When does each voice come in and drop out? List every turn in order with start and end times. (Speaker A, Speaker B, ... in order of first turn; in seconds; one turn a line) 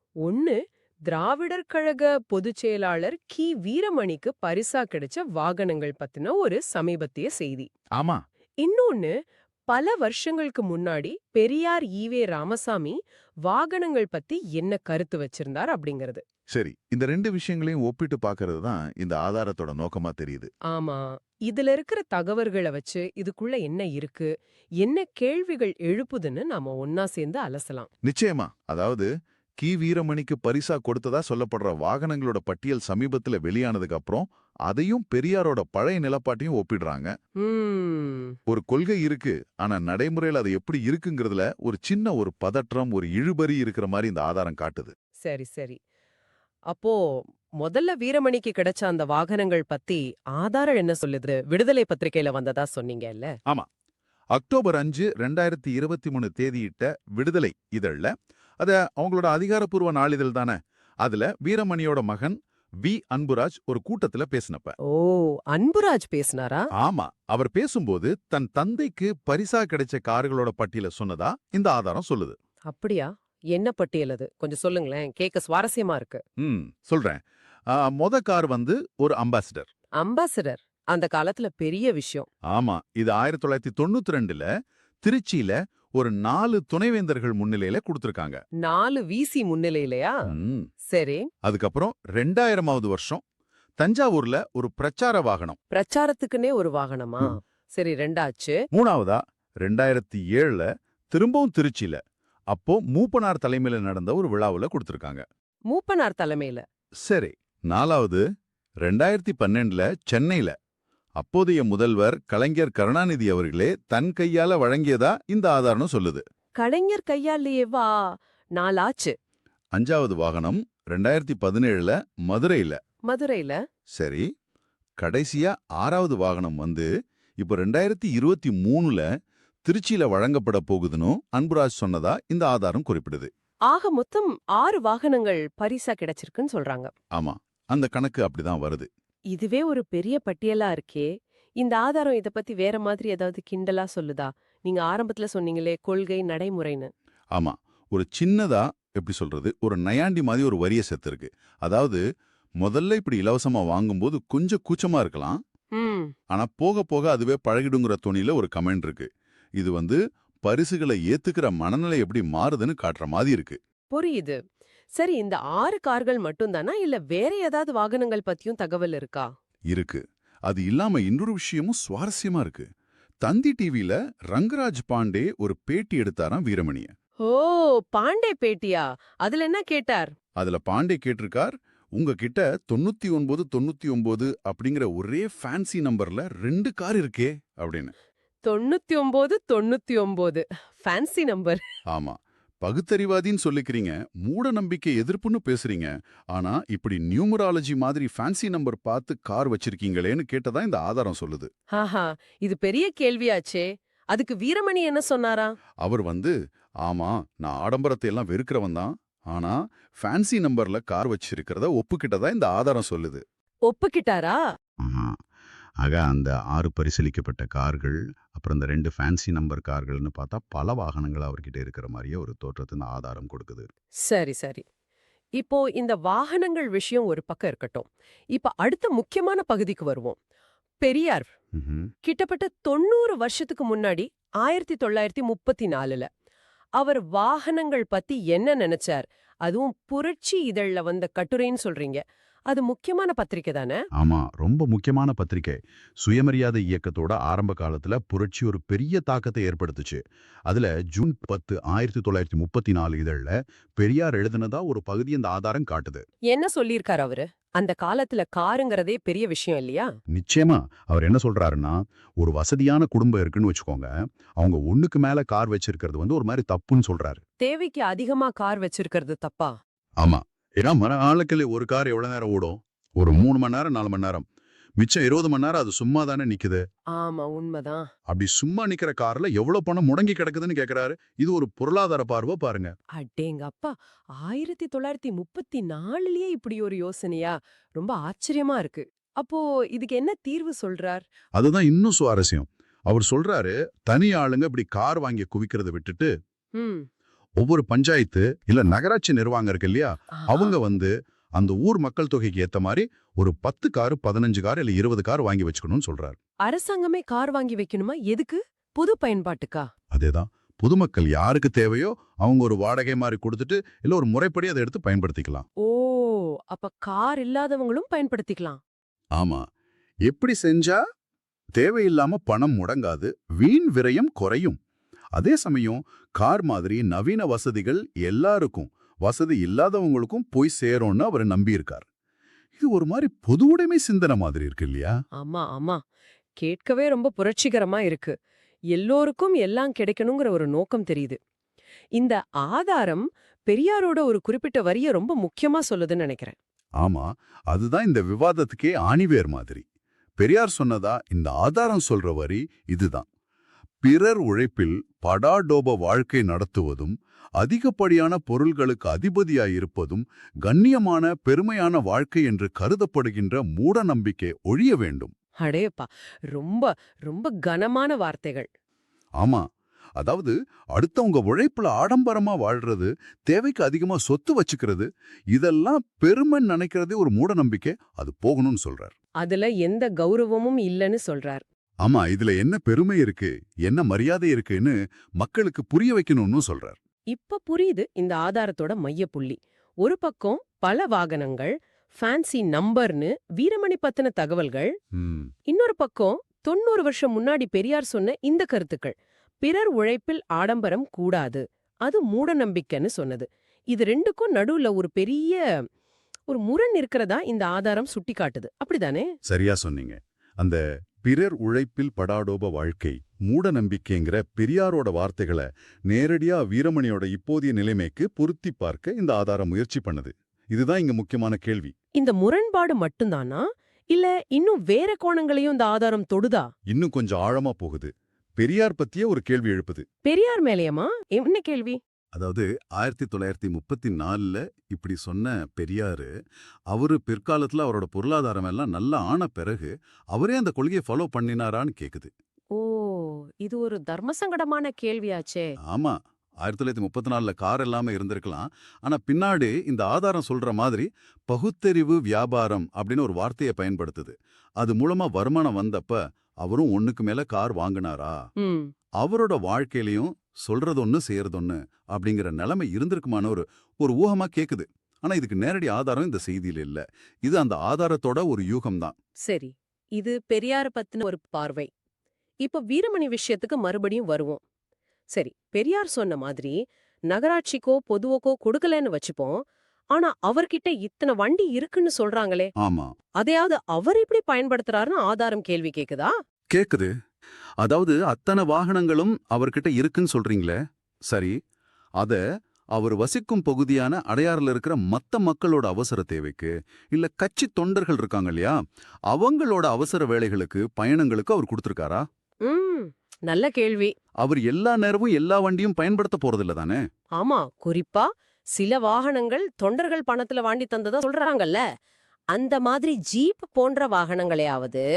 Speaker A: 0.2-0.6
Speaker A: 1.1-7.7
Speaker B: 8.0-8.2
Speaker A: 8.6-9.1
Speaker A: 9.7-16.2
Speaker B: 16.5-20.5
Speaker A: 20.7-27.9
Speaker B: 28.0-37.1
Speaker A: 37.4-38.4
Speaker B: 38.5-44.9
Speaker A: 45.2-45.8
Speaker A: 46.7-53.3
Speaker B: 54.3-64.8
Speaker A: 64.9-66.7
Speaker B: 66.8-72.3
Speaker A: 72.7-76.2
Speaker B: 76.4-79.7
Speaker A: 80.0-82.3
Speaker B: 82.5-84.5
Speaker B: 85.0-88.4
Speaker A: 88.6-90.1
Speaker B: 90.3-90.7
Speaker A: 90.9-91.3
Speaker B: 91.4-93.2
Speaker B: 93.8-95.6
Speaker A: 95.7-98.6
Speaker B: 98.7-102.0
Speaker B: 102.5-105.2
Speaker A: 105.7-106.6
Speaker B: 107.0-108.2
Speaker B: 108.8-110.5
Speaker B: 111.2-116.2
Speaker A: 116.6-118.0
Speaker A: 118.5-119.1
Speaker B: 119.7-122.8
Speaker A: 123.1-123.6
Speaker B: 123.9-124.2
Speaker B: 125.0-126.9
Speaker B: 127.4-129.1
Speaker B: 129.6-133.3
Speaker A: 133.7-136.9
Speaker B: 137.1-138.9
Speaker A: 139.3-141.1
Speaker A: 141.6-146.9
Speaker B: 147.3-152.0
Speaker B: 152.6-155.4
Speaker A: 155.8-156.1
Speaker B: 156.3-163.6
Speaker A: 163.9-164.4
Speaker A: 164.9-169.3
Speaker B: 169.7-172.7
Speaker B: 173.2-176.9
Speaker A: 177.3-180.1
Speaker B: 180.4-187.9
Speaker A: 188.4-191.6
Speaker B: 191.9-201.5
Speaker A: 201.7-205.5
Speaker B: 205.8-213.2
Speaker A: 213.7-214.4
Speaker B: 214.8-215.2
Speaker B: 215.8-223.7
Speaker A: 224.0-224.6
Speaker A: 225.4-230.2
Speaker A: 230.8-231.3
Speaker B: 231.5-231.9
Speaker A: 232.0-236.1
Speaker A: 236.8-243.8
Speaker B: 243.9-256.0
Speaker A: 256.3-259.9
Speaker B: 260.1-267.2
Speaker A: 267.4-269.5
Speaker B: 270.0-274.2
Speaker B: 274.8-276.6
Speaker A: 277.0-277.9
Speaker B: 278.1-282.7
Speaker A: 282.9-291.0
Speaker B: 291.4-296.1
Speaker A: 296.6-296.9
Speaker B: 297.4-306.1
Speaker A: 300.1-300.6
Speaker A: 306.4-309.7
Speaker B: 309.9-315.4
Speaker A: 315.6-318.6
Speaker B: 319.1-319.4
Speaker B: 320.0-320.8
Speaker B: 321.6-324.6
Speaker B: 325.1-331.9
Speaker B: 332.6-334.9
Speaker A: 335.2-335.8
Speaker A: 336.4-338.1
Speaker A: 338.7-341.2
Speaker A: 342.0-346.4
Speaker B: 346.8-349.6
Speaker B: 350.2-353.1
Speaker B: 353.8-365.1
Speaker A: 365.4-368.5
Speaker B: 370.0-378.9
Speaker A: 379.2-381.4
Speaker B: 381.8-386.8
Speaker A: 387.1-394.7
Speaker B: 394.9-395.3
Speaker A: 395.5-405.4
Speaker A: 406.3-409.1
Speaker B: 409.2-421.7
Speaker A: 422.0-426.5
Speaker B: 426.7-429.8
Speaker A: 430.0-431.8
Speaker B: 432.1-436.1
Speaker B: 436.7-442.1
Speaker A: 442.5-445.5
Speaker B: 445.7-458.2
Speaker A: 458.4-458.7
Speaker B: 459.0-468.9
Speaker A: 469.3-471.7
Speaker A: 472.4-474.4
Speaker A: 475.1-476.5
Speaker A: 477.1-479.4
Speaker A: 479.9-482.5
Speaker B: 482.6-482.9
Speaker A: 483.2-486.1
Speaker B: 486.5-486.9
Speaker B: 487.6-490.6
Speaker B: 491.1-491.4
Speaker B: 492.7-498.6
Speaker B: 499.1-502.1
Speaker A: 502.4-503.9
Speaker B: 504.2-506.8
Speaker A: 507.2-511.6
Speaker A: 512.3-514.8